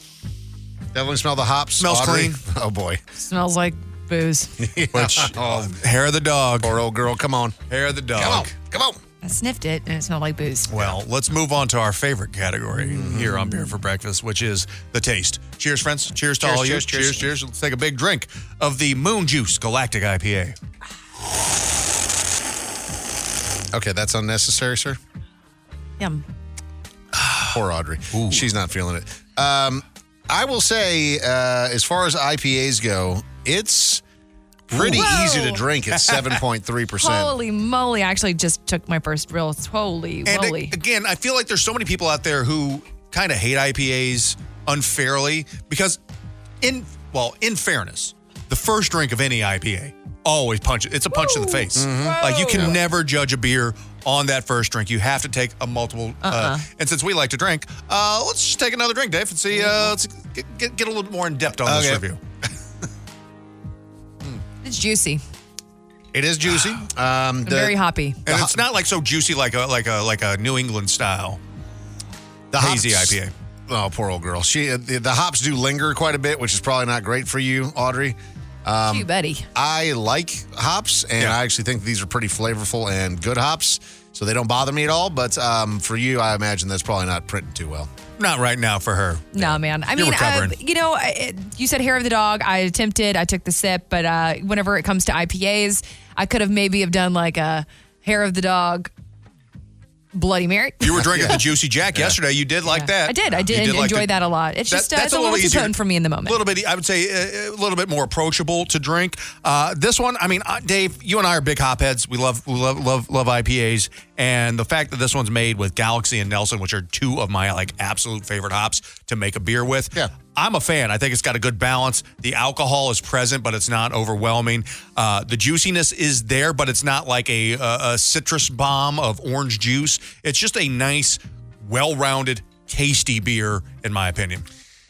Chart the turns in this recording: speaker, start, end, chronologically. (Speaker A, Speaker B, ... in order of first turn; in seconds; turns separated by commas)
Speaker A: 0.9-3.0, Speaker B: 1.8-2.4, Speaker C: 3.2-4.5, Speaker A: 4.6-5.7, Speaker B: 4.9-6.8, Speaker A: 6.6-7.6, Speaker B: 7.7-8.5, Speaker A: 8.1-9.0, Speaker C: 9.2-10.8, Speaker B: 10.7-20.6, Speaker A: 12.9-13.3, Speaker A: 16.4-17.3, Speaker A: 23.7-25.0, Speaker A: 27.4-34.0, Speaker B: 28.1-28.4, Speaker A: 34.7-37.4, Speaker B: 34.7-35.1, Speaker C: 34.8-35.6, Speaker C: 37.0-40.7, Speaker B: 40.2-46.0, Speaker B: 46.6-62.2, Speaker C: 51.1-51.6, Speaker A: 51.7-52.7, Speaker C: 52.2-52.6, Speaker C: 56.2-56.6, Speaker A: 61.6-62.0, Speaker C: 64.6-65.2, Speaker A: 66.1-67.8, Speaker C: 67.4-68.2, Speaker B: 68.3-71.4, Speaker A: 68.3-68.6, Speaker A: 72.5-73.2, Speaker B: 72.6-73.3, Speaker A: 73.7-87.9, Speaker C: 78.9-79.5, Speaker B: 88.2-90.5, Speaker C: 89.3-98.9, Speaker C: 100.1-100.9, Speaker B: 100.8-104.1, Speaker C: 102.7-106.4, Speaker B: 104.7-105.7, Speaker B: 106.2-134.4